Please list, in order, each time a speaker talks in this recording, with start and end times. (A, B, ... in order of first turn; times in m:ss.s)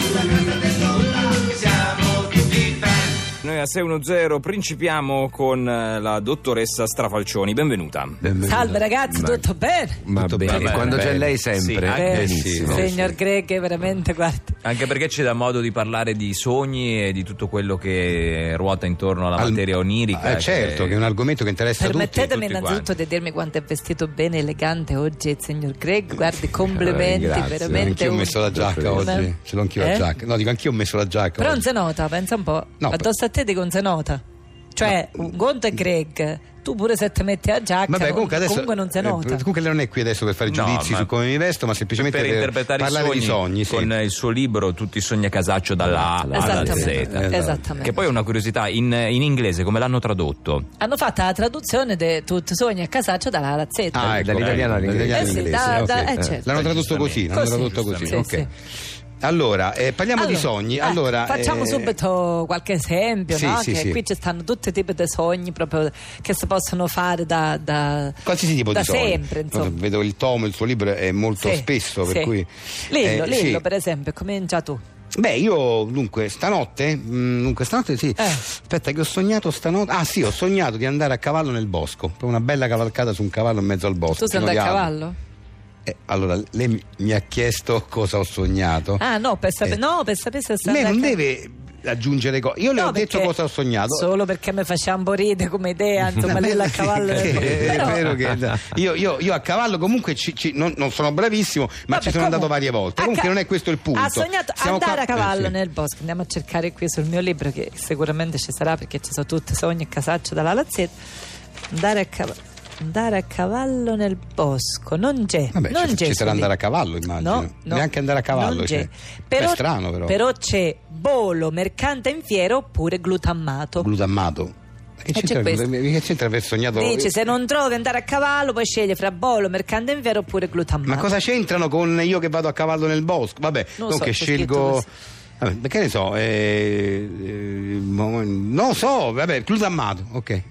0:03.4-0:08.2 A
0:08.2-0:08.9 B
0:08.5-0:10.0 C
0:09.1-0:09.4 D
0:10.1-0:13.1 D
0:10.2-0:11.3 B
0:10.2-0:12.8 A
0:12.0-0:14.6 C
0:12.1-0:12.9 B
0:14.6-0:21.0 A
0:19.4-0:22.3 B
0:21.8-0:30.1 C
0:22.1-0:22.9 A
0:26.2-0:26.5 B
0:26.7-0:29.2 D
0:27.6-0:31.7 B
0:31.4-0:34.2 C
0:32.8-0:33.1 B
0:34.8-0:39.5 C
0:34.8-0:35.8 B
0:37.9-0:43.9 B
0:40.5-0:41.1 A
0:42.0-0:50.7 A
0:45.8-0:47.0 D
0:46.4-0:48.0 C
0:46.9-0:48.0 B
0:50.8-0:54.1 C
0:53.9-0:58.5 B
0:54.0-0:56.4 D
0:54.4-0:55.3 A
0:55.1-0:56.5 C
0:56.5-0:58.3 A
0:57.3-0:58.5 C
0:59.2-1:02.0 B
1:00.2-1:09.8 C
1:03.3-1:04.0 B
1:08.2-1:13.6 B
1:11.4-1:12.3 C
1:12.8-1:14.8 C
1:15.2-1:24.9 B
1:24.1-1:25.2 C
1:25.8-1:29.0 B
1:29.0-1:31.2 C
1:30.6-1:34.1 B
1:32.8-1:33.3 C
1:33.9-1:38.3 C
1:36.2-1:45.6 B
1:41.9-1:43.3 C
1:43.9-1:51.0 C
1:51.7-1:56.5 C
1:55.5-2:00.2 B
1:57.2-2:03.9 C
2:03.8-2:07.2 B
2:05.1-2:05.7 C
2:06.7-2:11.1 C
2:10.9-2:14.9 B
2:13.8-2:14.9 C
2:15.4-2:20.4 B